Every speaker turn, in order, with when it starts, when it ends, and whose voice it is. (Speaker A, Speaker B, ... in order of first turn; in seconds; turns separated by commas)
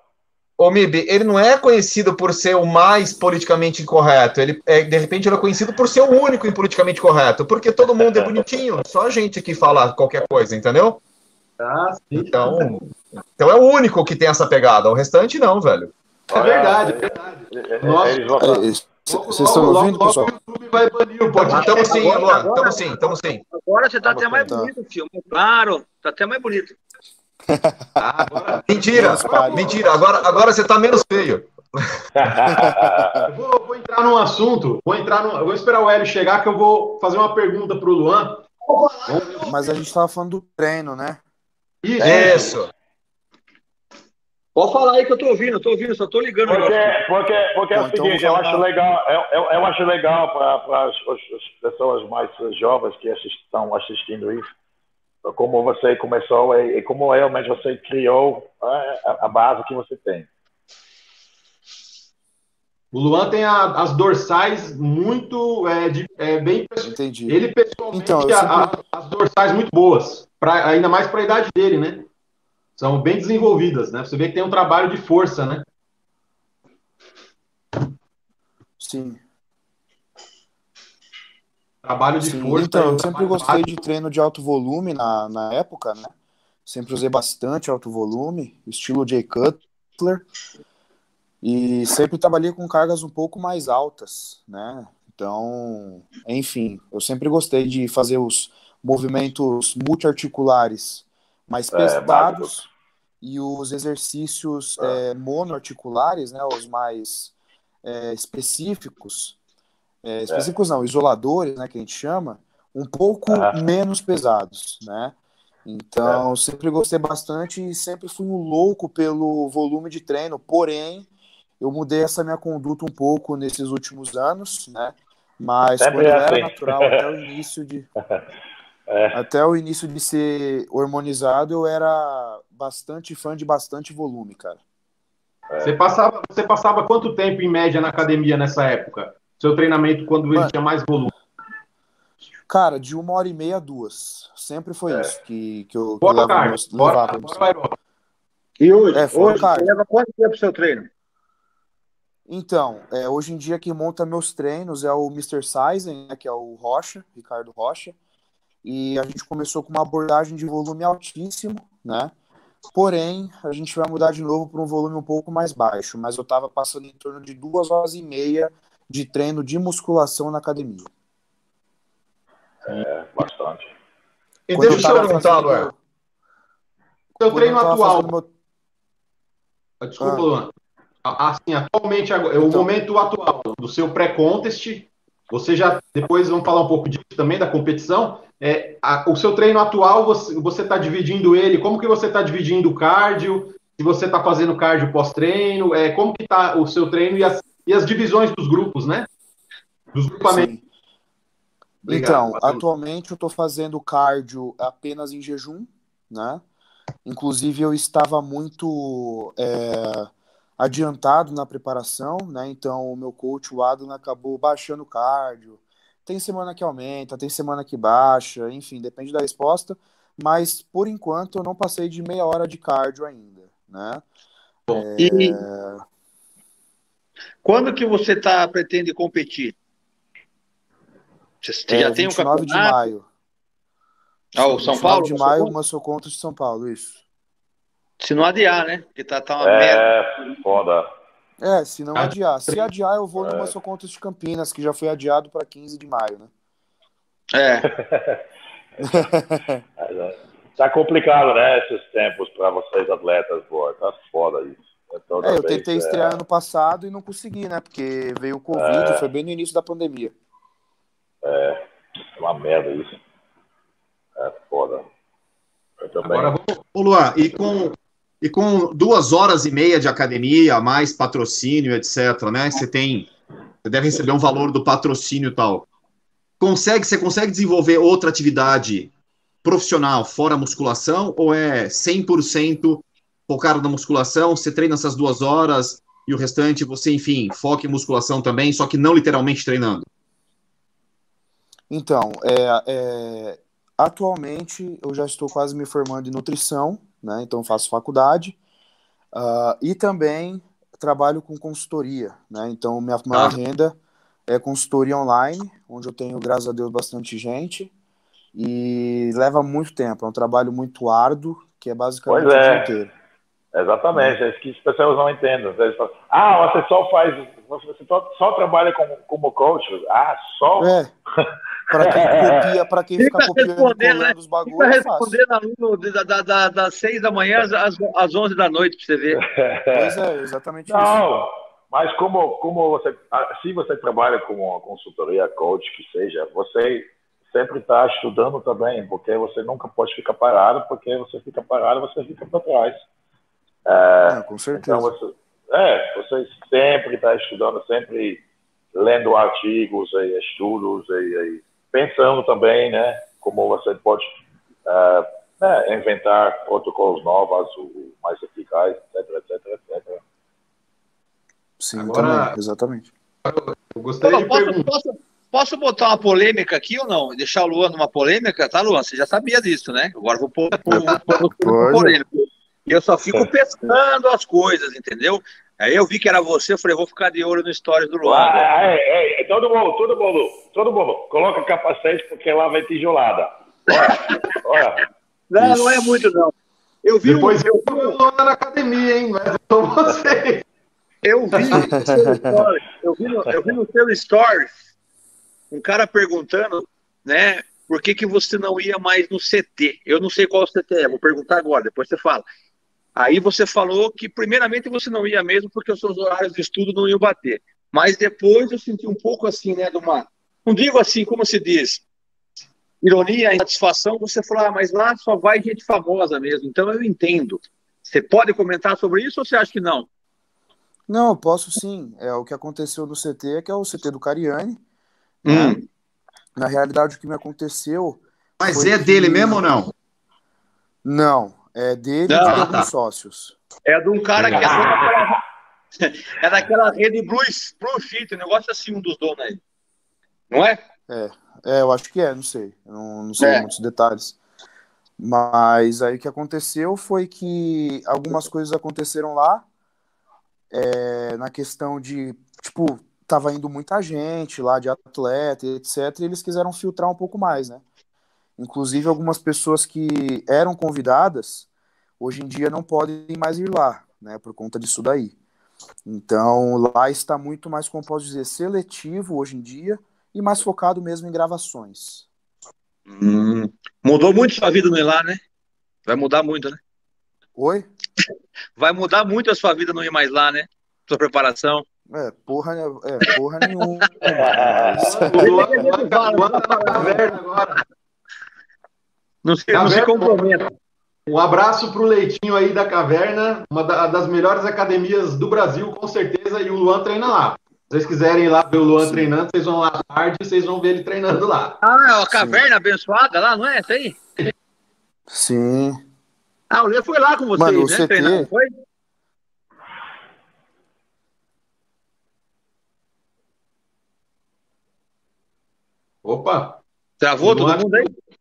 Speaker A: 0.6-11.0, Speaker B: 11.6-12.6, Speaker A: 12.2-12.9, Speaker A: 13.4-15.9, Speaker C: 16.3-18.7, Speaker B: 16.3-18.6, Speaker D: 18.4-20.3, Speaker B: 19.1-22.3, Speaker A: 21.4-23.4, Speaker E: 21.5-26.8, Speaker C: 24.0-24.6, Speaker D: 24.5-24.7, Speaker D: 27.5-29.9, Speaker B: 28.0-29.9, Speaker A: 28.7-32.0, Speaker C: 32.2-33.2, Speaker D: 32.4-33.3, Speaker B: 33.3-38.5, Speaker E: 38.7-39.5, Speaker B: 39.1-39.6, Speaker D: 39.4-41.2, Speaker B: 41.8-42.6, Speaker A: 42.0-42.7, Speaker E: 44.5-47.0, Speaker C: 46.5-54.5, Speaker D: 47.7-48.6, Speaker C: 55.2-60.3, Speaker B: 62.9-72.1, Speaker D: 66.8-67.4, Speaker D: 67.9-68.7, Speaker B: 72.8-75.6, Speaker D: 78.8-79.2, Speaker B: 81.8-83.8, Speaker D: 82.2-86.1, Speaker D: 86.7-90.2, Speaker D: 91.4-102.7, Speaker C: 101.7-102.6, Speaker D: 103.2-107.3, Speaker D: 107.8-109.4, Speaker D: 110.0-121.1, Speaker C: 113.3-113.5, Speaker D: 121.6-127.9, Speaker C: 125.8-127.1, Speaker C: 128.9-129.2, Speaker D: 129.1-134.6, Speaker B: 135.6-141.1, Speaker D: 142.5-147.5, Speaker B: 146.0-147.8, Speaker E: 148.6-150.9, Speaker D: 148.9-149.7, Speaker D: 152.3-157.9, Speaker D: 158.6-162.1, Speaker D: 162.7-170.9, Speaker C: 172.7-173.7, Speaker A: 174.5-175.7, Speaker D: 174.5-175.8, Speaker B: 177.2-178.1, Speaker D: 177.3-178.3, Speaker B: 179.8-180.5, Speaker D: 180.0-180.3, Speaker B: 181.0-199.1, Speaker B: 199.9-200.5, Speaker D: 200.2-200.6, Speaker B: 201.8-202.6, Speaker D: 201.9-206.4, Speaker D: 207.1-224.0, Speaker D: 224.7-225.8, Speaker E: 225.0-225.4, Speaker E: 227.4-229.6, Speaker E: 231.4-232.9, Speaker D: 231.7-233.1, Speaker E: 234.4-235.5, Speaker D: 234.6-237.0, Speaker E: 238.0-239.9, Speaker C: 239.4-240.9, Speaker D: 241.4-246.3, Speaker B: 241.9-242.7, Speaker C: 243.2-243.5, Speaker E: 247.3-247.7, Speaker C: 247.7-248.2, Speaker C: 248.8-249.1, Speaker D: 248.8-249.6, Speaker C: 249.8-256.2, Speaker D: 255.2-260.1, Speaker C: 258.5-259.0, Speaker C: 261.2-261.6, Speaker C: 262.1-263.0, Speaker C: 264.2-264.9, Speaker C: 265.8-266.3, Speaker B: 266.0-266.6, Speaker A: 266.7-273.1, Speaker A: 273.6-275.7, Speaker A: 276.4-278.9, Speaker A: 279.4-289.9, Speaker D: 291.7-298.4, Speaker D: 299.1-303.8, Speaker D: 304.3-307.7, Speaker D: 308.4-312.9, Speaker C: 312.1-312.7, Speaker C: 313.5-320.7, Speaker D: 320.6-320.9, Speaker C: 321.3-322.6, Speaker D: 321.7-325.2, Speaker E: 323.0-329.2, Speaker C: 329.2-330.0, Speaker D: 329.7-331.1, Speaker C: 330.7-342.8, Speaker C: 343.7-348.2, Speaker D: 344.1-344.9, Speaker C: 348.7-354.1, Speaker C: 354.7-360.0, Speaker D: 361.6-362.9, Speaker B: 361.7-362.4, Speaker B: 363.2-364.7, Speaker E: 364.0-378.5, Speaker B: 370.6-371.2, Speaker D: 370.7-372.0, Speaker C: 378.0-384.9, Speaker E: 383.7-384.4, Speaker E: 385.3-386.3, Speaker D: 385.4-386.1, Speaker E: 386.8-388.0, Speaker B: 387.0-390.4, Speaker E: 391.0-394.6, Speaker D: 391.5-392.4, Speaker E: 395.5-402.2, Speaker E: 403.0-411.8, Speaker E: 412.8-419.9, Speaker D: 420.9-424.6, Speaker D: 425.2-425.6, Speaker E: 425.2-425.6, Speaker D: 426.4-429.4, Speaker A: 428.4-429.7, Speaker D: 430.8-433.4, Speaker E: 432.1-432.5, Speaker A: 432.2-432.7, Speaker E: 433.7-435.2, Speaker C: 434.2-435.1, Speaker E: 435.8-439.4, Speaker E: 440.3-440.6, Speaker D: 440.9-444.2, Speaker E: 443.2-443.4, Speaker D: 445.0-449.4, Speaker D: 450.5-457.6, Speaker D: 458.4-461.5, Speaker D: 462.0-465.1, Speaker D: 465.9-472.1, Speaker E: 472.9-475.2, Speaker E: 475.9-476.6, Speaker D: 477.4-477.7, Speaker E: 478.6-481.6, Speaker D: 481.9-485.4, Speaker C: 484.1-485.1, Speaker B: 484.8-487.6, Speaker E: 485.2-487.1, Speaker E: 489.2-490.4, Speaker B: 489.5-490.5, Speaker B: 491.1-501.6, Speaker D: 498.8-499.1, Speaker E: 501.6-504.0, Speaker D: 502.1-502.4, Speaker D: 505.1-505.8, Speaker E: 506.5-508.5, Speaker D: 507.4-508.3, Speaker B: 516.0-516.6, Speaker E: 517.0-517.9, Speaker B: 517.2-517.9